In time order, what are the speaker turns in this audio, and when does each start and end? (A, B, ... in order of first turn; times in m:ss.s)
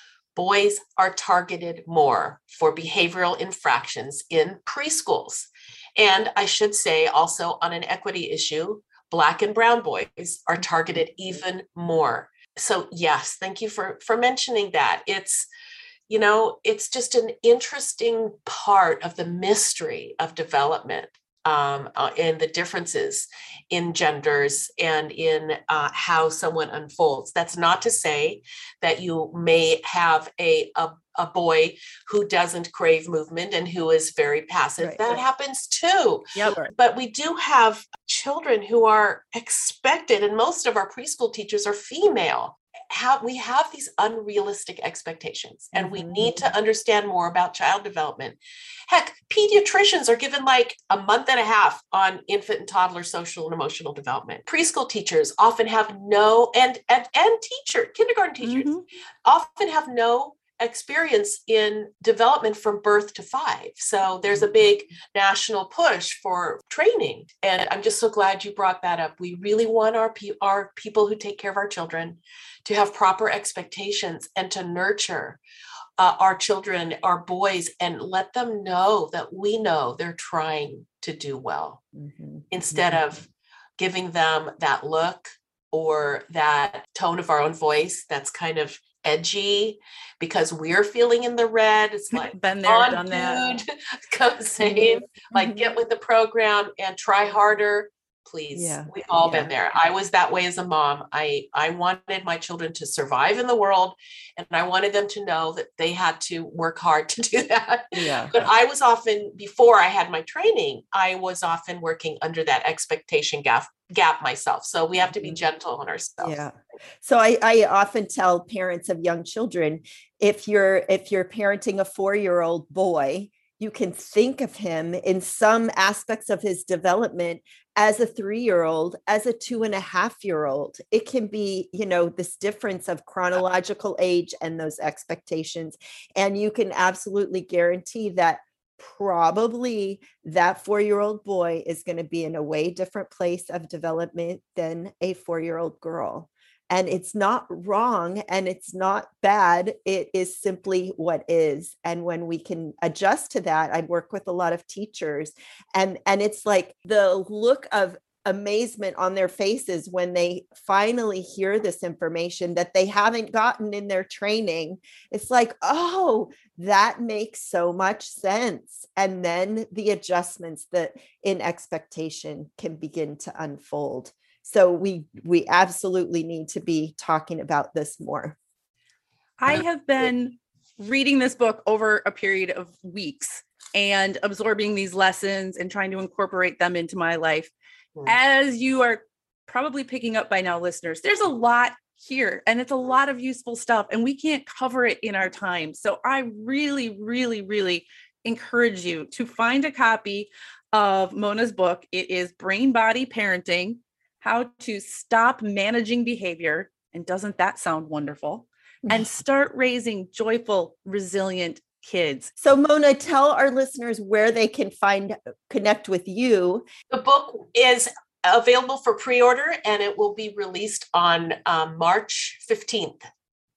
0:00.4-0:15.5 A
0:16.1-0:48.4 A
0:34.8-0:35.2 B
0:36.3-0:36.7 C
0:45.7-0:46.4 B
0:48.9-0:58.7 A
0:58.4-0:58.8 C
0:59.2-1:15.4 A
1:16.0-1:21.8 A
1:22.0-1:23.0 B
1:22.5-1:56.4 A
1:32.2-1:33.6 C
1:34.6-1:35.8 B
1:38.5-1:39.5 B
1:47.9-1:48.5 B
1:55.1-1:55.4 B
1:56.2-2:58.4 B
2:59.4-3:07.5 C
3:08.1-3:32.3 C
3:32.4-3:36.7 B
3:36.9-3:43.0 A